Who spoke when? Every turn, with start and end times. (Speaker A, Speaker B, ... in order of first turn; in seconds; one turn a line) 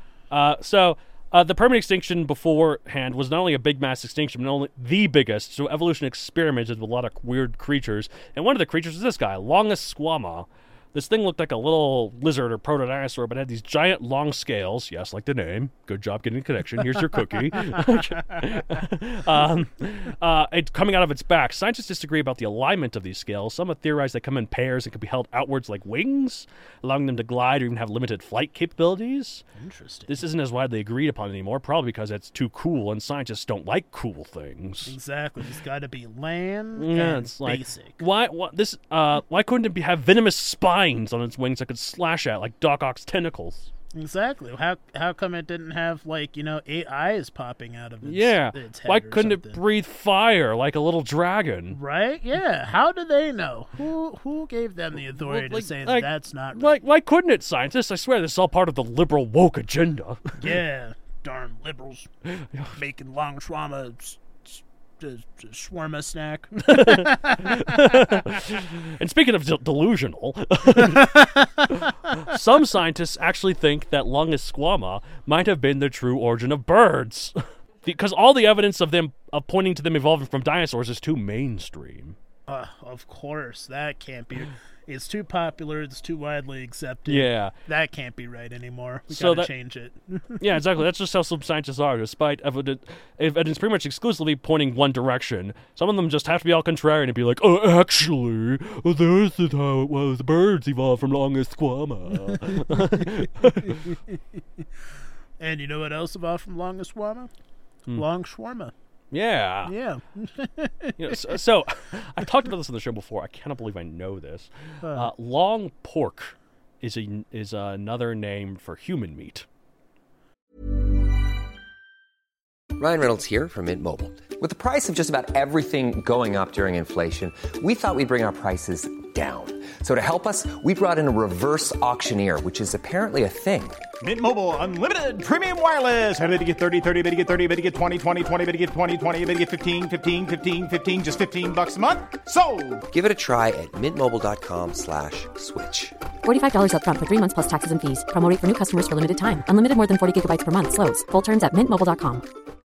Speaker A: 0.3-29.4
Speaker B: 29.6-30.2
Speaker A: 30.1-35.0
Speaker B: 34.9-38.0
Speaker A: 36.8-43.7
Speaker B: 43.9-49.6
Speaker A: 48.0-51.8
Speaker B: 51.7-56.7
Speaker A: 55.0-60.5
Speaker B: 60.4-62.1
Speaker A: 62.3-62.8
Speaker B: 62.8-68.2
Speaker A: 66.7-82.2
Speaker B: 70.8-71.8
Speaker B: 82.5-90.4
Speaker A: 87.1-87.5
Speaker A: 89.1-89.5
Speaker A: 90.4-103.9
Speaker B: 102.3-103.1
Speaker B: 103.7-104.2
Speaker B: 105.4-107.3
Speaker B: 107.9-108.7
Speaker A: 109.1-109.7
Speaker B: 109.7-111.4
Speaker A: 111.0-119.5
Speaker B: 114.8-115.1
Speaker C: 122.8-133.8
Speaker D: 134.0-142.9
Speaker C: 142.9-146.0
Speaker E: 146.2-152.2